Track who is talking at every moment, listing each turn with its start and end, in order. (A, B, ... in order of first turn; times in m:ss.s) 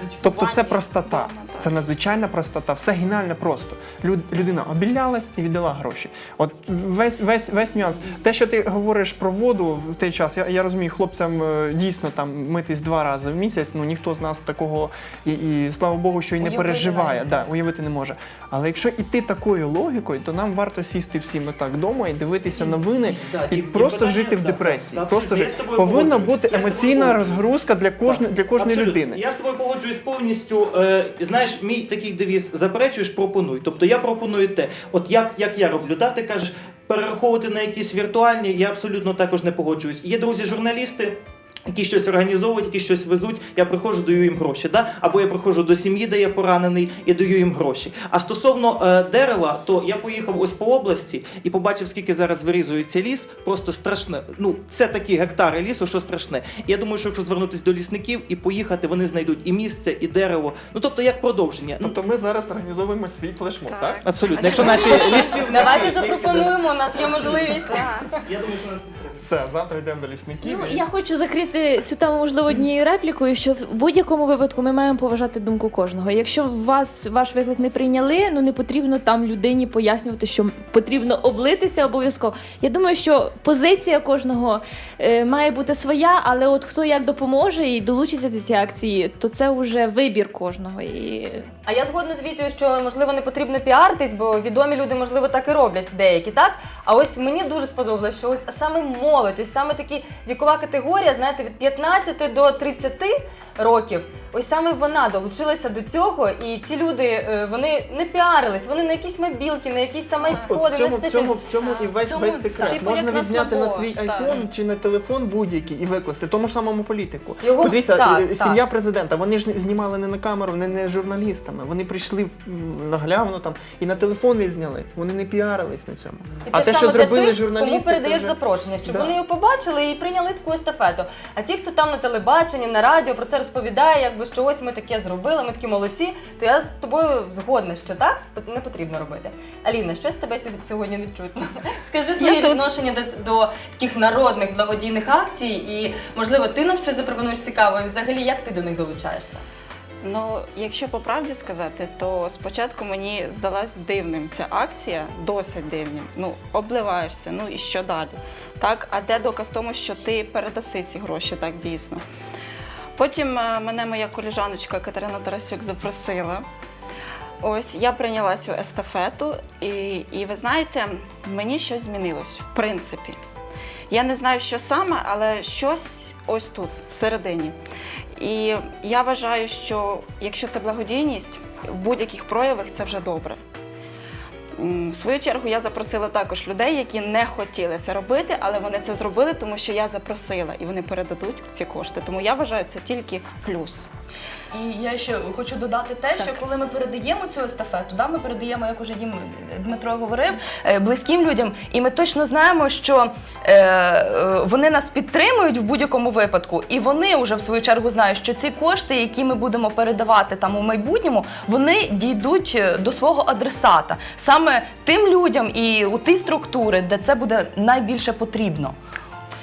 0:00.2-0:01.8 A
0:00.2-0:29.2 B
0:16.4-0:17.4 C
0:22.5-0:27.5 D
0:28.0-1:01.9 D
1:01.8-1:05.0 B
1:03.7-1:05.5 A
1:04.0-1:09.2 D
1:04.6-1:08.2 E
1:07.7-1:08.0 A
1:09.2-1:10.8 B
1:10.4-1:31.5 F
1:31.7-1:51.5 E
1:50.3-2:09.2 B
1:51.6-1:54.3 C
1:57.4-1:58.6 E
2:06.5-2:29.4 E
2:22.2-2:22.6 A
2:30.0-2:42.0 A
2:43.0-2:46.5 A
2:47.4-2:53.2 A
2:53.9-2:57.6 A
2:58.2-3:03.4 A
3:04.6-3:13.9 A
3:14.5-3:38.8 C